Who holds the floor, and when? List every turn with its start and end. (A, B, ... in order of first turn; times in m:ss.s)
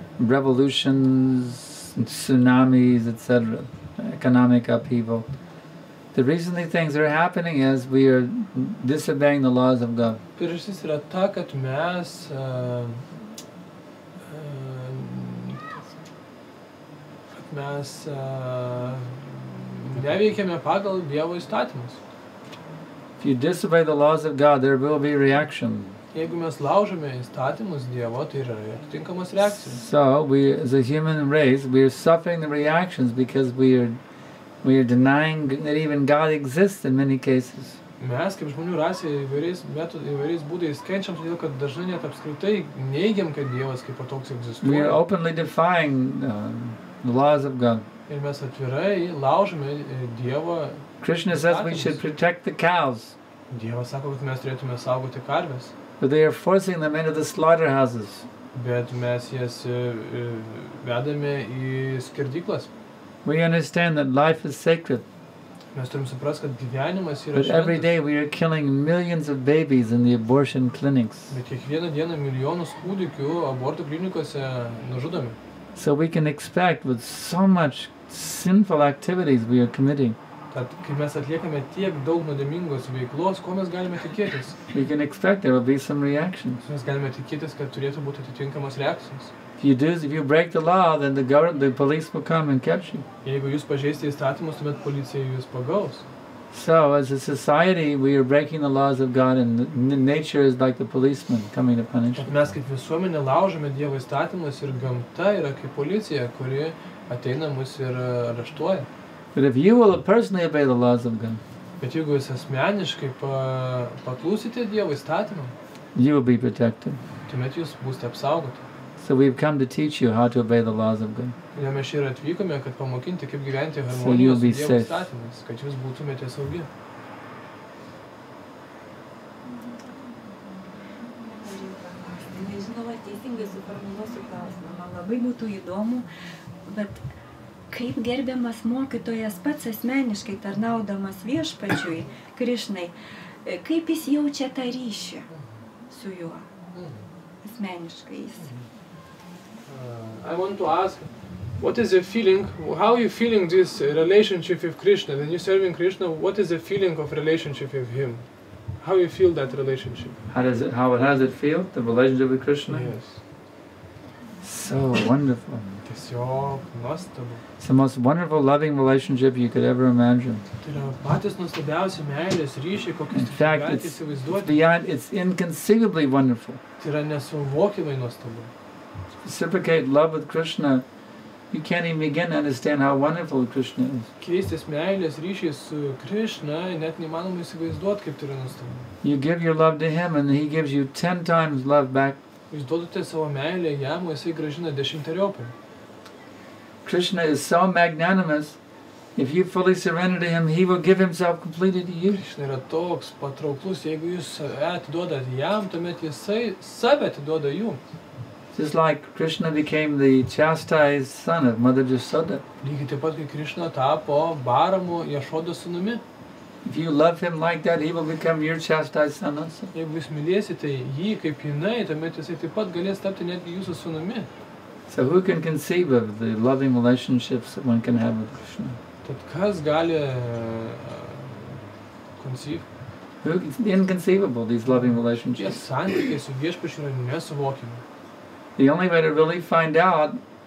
0:00.2-0:05.3 A
0:06.1-0:10.2 A
0:10.4-0:13.1 B
0:14.2-0:15.6 B
0:17.3-0:22.0 B
0:23.2-0:26.0 A
0:26.1-0:29.8 B
0:29.5-0:34.0 A
0:34.6-0:37.8 A
0:38.0-0:45.0 B
0:44.6-0:47.9 A
0:48.1-0:52.0 B
0:51.0-0:53.2 A
0:53.5-0:55.7 B
0:56.0-0:58.3 A
0:58.5-1:02.7 B
1:03.2-1:05.0 A
1:05.7-1:07.9 B
1:07.3-1:11.3 A
1:11.3-1:15.4 B
1:15.8-1:20.2 A
1:20.5-1:24.6 B
1:24.7-1:26.6 A
1:26.6-1:29.3 B
1:29.6-1:33.1 A
1:33.2-1:36.0 B
1:36.5-1:42.3 A
1:42.2-1:48.9 B
1:49.3-1:51.4 A
1:51.8-1:55.6 B
1:56.0-1:57.0 A
1:57.3-1:58.6 B
1:59.0-2:01.4 A
2:01.6-2:06.7 B
2:03.9-2:05.0 A
2:11.2-2:16.1 C
2:16.7-2:17.0 C
2:17.7-2:22.9 C
2:23.4-2:25.3 C
2:25.9-2:26.5 C
2:26.7-2:27.0 B
2:27.4-2:28.5 C
2:29.7-2:38.3 B
2:38.8-2:40.2 B
2:40.3-2:42.9 A
2:42.7-2:43.2 B
2:44.4-2:45.8 A
2:45.8-2:47.4 B
2:47.6-2:50.4 A
2:50.6-2:54.6 B
2:53.1-2:56.6 A
2:56.8-2:58.5 B
2:59.2-3:00.8 A
3:01.5-3:04.1 A
3:04.2-3:08.9 B
3:09.0-3:12.2 A
3:12.5-3:15.5 B
3:16.8-3:18.6 A
3:19.2-3:22.2 A
3:22.1-3:27.8 B
3:28.5-3:32.4 A
3:32.6-3:36.0 B
3:36.6-3:39.7 A
3:39.7-3:44.3 B
3:44.9-3:48.8 A
3:49.0-3:51.6 B
3:52.2-3:52.7 B
3:53.2-3:55.6 A
3:54.7-3:57.8 B
3:58.6-4:00.2 A